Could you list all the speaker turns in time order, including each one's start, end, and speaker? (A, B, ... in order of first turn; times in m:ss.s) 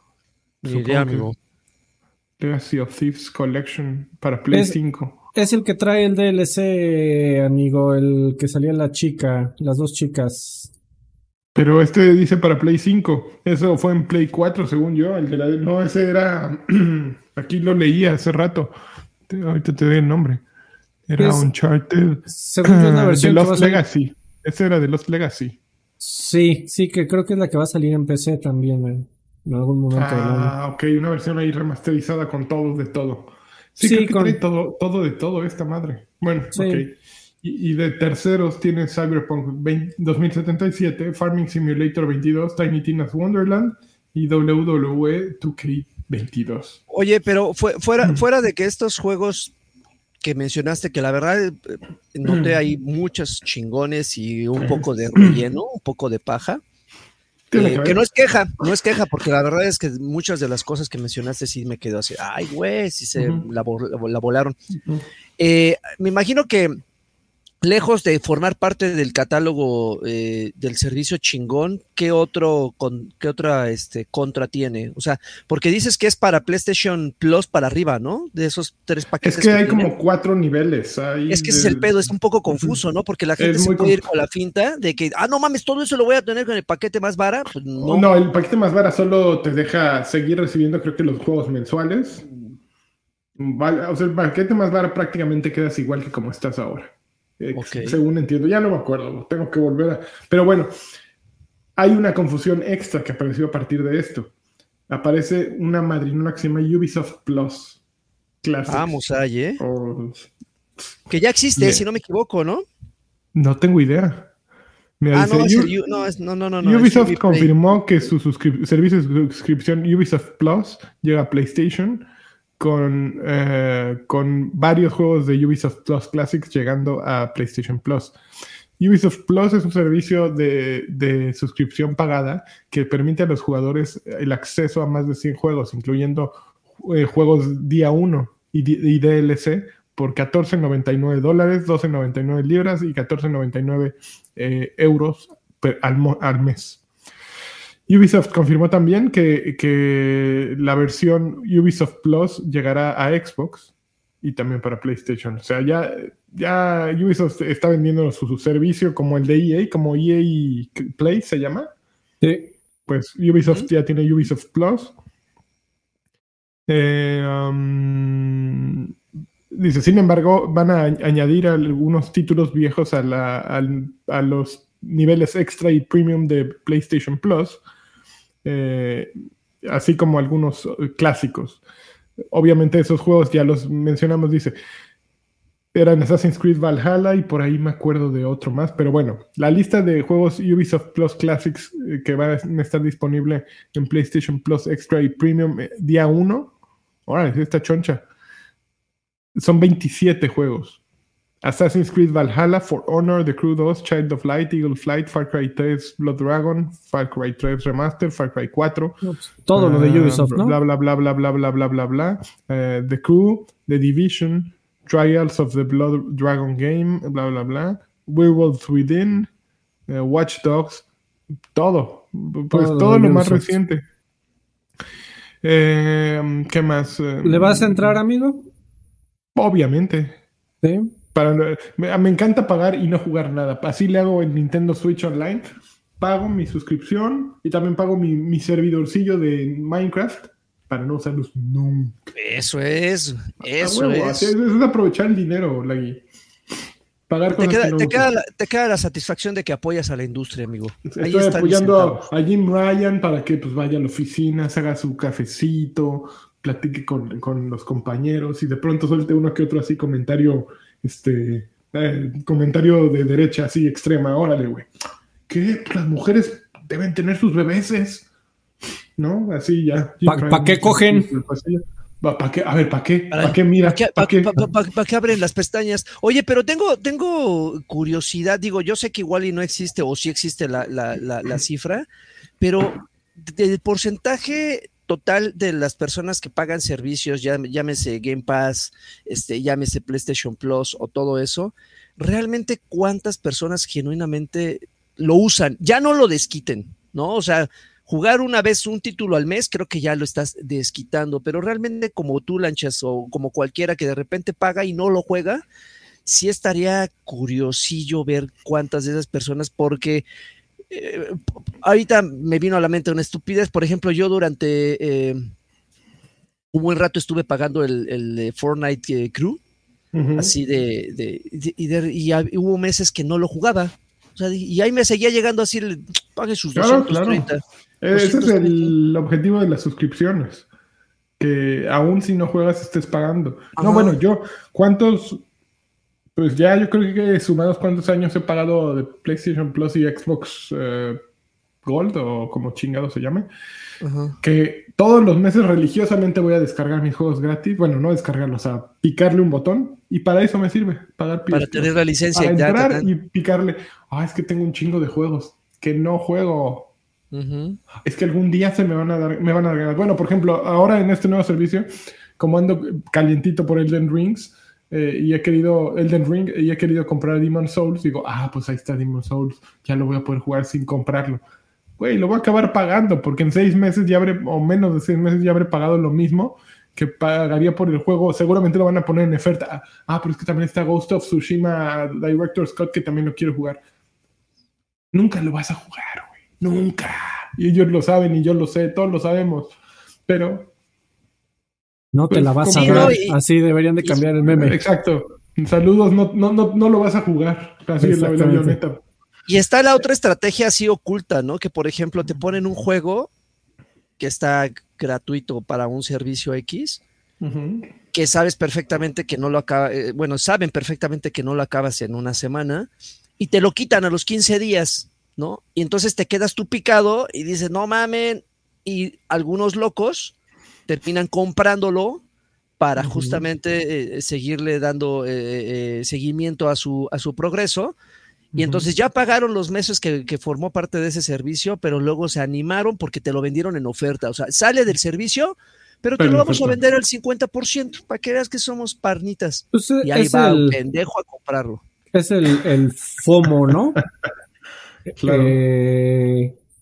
0:00.6-0:01.4 A
0:00.7-0:01.3 B
0:02.4-0:05.2 B
0:04.5-0:04.8 C
0:05.3-0:10.7 C
0:11.5-0:18.7 B
0:19.3-0:20.4 B
0:21.1-0:25.6 B
0:21.2-0:21.5 C
0:22.3-0:23.8 C
0:26.0-0:30.5 C
0:29.9-0:46.8 B
0:33.8-0:34.4 C
0:36.5-0:36.8 C
0:46.9-0:49.5 A
0:50.2-0:56.6 A
0:52.2-0:52.5 B
0:54.6-0:55.4 B
0:57.5-0:58.0 B
0:57.5-1:04.6 A
1:03.2-1:03.4 B
1:05.4-1:06.8 A
1:07.6-1:19.9 A
1:19.2-1:22.0 B
1:21.3-1:28.1 A
1:23.4-1:24.0 B
1:27.8-1:32.2 B
1:33.4-1:40.7 B
1:37.5-1:38.0 A
1:41.8-1:44.3 B
1:44.9-1:47.8 B
1:48.4-1:48.9 B
1:48.7-1:49.6 A
1:49.6-1:50.3 B
1:51.1-1:52.6 A
1:51.6-1:51.8 B
1:53.3-1:54.3 B
1:55.0-1:55.7 B
1:55.1-1:57.5 A
1:56.6-2:02.1 B
2:02.6-2:08.2 B
2:08.8-2:26.8 B
2:27.9-2:41.7 B
2:42.2-2:42.5 C
2:42.9-2:44.9 B
2:46.7-2:48.9 B
2:49.5-2:57.6 B
2:58.4-3:01.6 B
3:02.3-3:04.5 B
3:05.7-3:16.5 B
3:17.0-3:18.0 B
3:19.4-3:20.8 B
3:21.4-3:29.0 B
3:29.0-3:30.6 C
3:29.5-3:39.3 B
3:39.9-3:40.8 B
3:41.5-3:43.8 B
3:42.5-3:43.5 C
3:45.4-3:48.0 B
3:47.2-3:48.4 C
3:49.3-3:50.2 B
3:50.6-3:50.9 C
3:51.1-3:55.4 B
3:56.0-4:02.0 B
4:02.2-4:04.3 A
4:03.6-4:06.0 B
4:07.1-4:08.1 B
4:07.3-4:12.0 A
4:10.9-4:24.7 B
4:25.3-4:28.0 B
4:29.0-4:34.4 B
4:30.0-4:31.1 C
4:33.1-4:41.8 A
4:42.4-5:05.4 A
5:06.0-5:10.0 A
5:10.7-5:15.3 A
5:16.5-5:19.4 A
5:19.9-5:20.3 B
5:20.2-5:27.4 A
5:26.6-5:27.2 B
5:27.8-5:30.4 B
5:27.9-5:28.7 A
5:31.2-5:35.2 B
5:33.6-5:34.0 A
5:36.1-5:41.0 B
5:41.6-5:43.3 B
5:43.8-5:44.2 A
5:44.2-5:56.7 B
5:51.3-5:52.9 A
5:57.1-5:57.6 A
5:57.8-6:11.2 B
6:11.8-6:23.6 B
6:24.9-6:29.6 B
6:30.1-6:30.5 B
6:31.9-6:34.6 C
6:32.1-6:33.0 B
6:32.5-6:33.2 A
6:34.2-6:38.8 B
6:37.8-6:38.6 C
6:39.3-6:43.1 A
6:44.0-6:46.8 A
6:47.2-6:47.7 B
6:47.9-7:00.1 A
7:00.7-7:02.0 A
7:02.6-7:07.8 A
7:02.8-7:03.2 B
7:08.3-7:08.7 B
7:08.4-7:21.6 A
7:16.0-7:16.6 B
7:19.5-7:20.6 C
7:21.9-7:23.8 C
7:25.0-7:25.4 B
7:25.0-7:26.3 C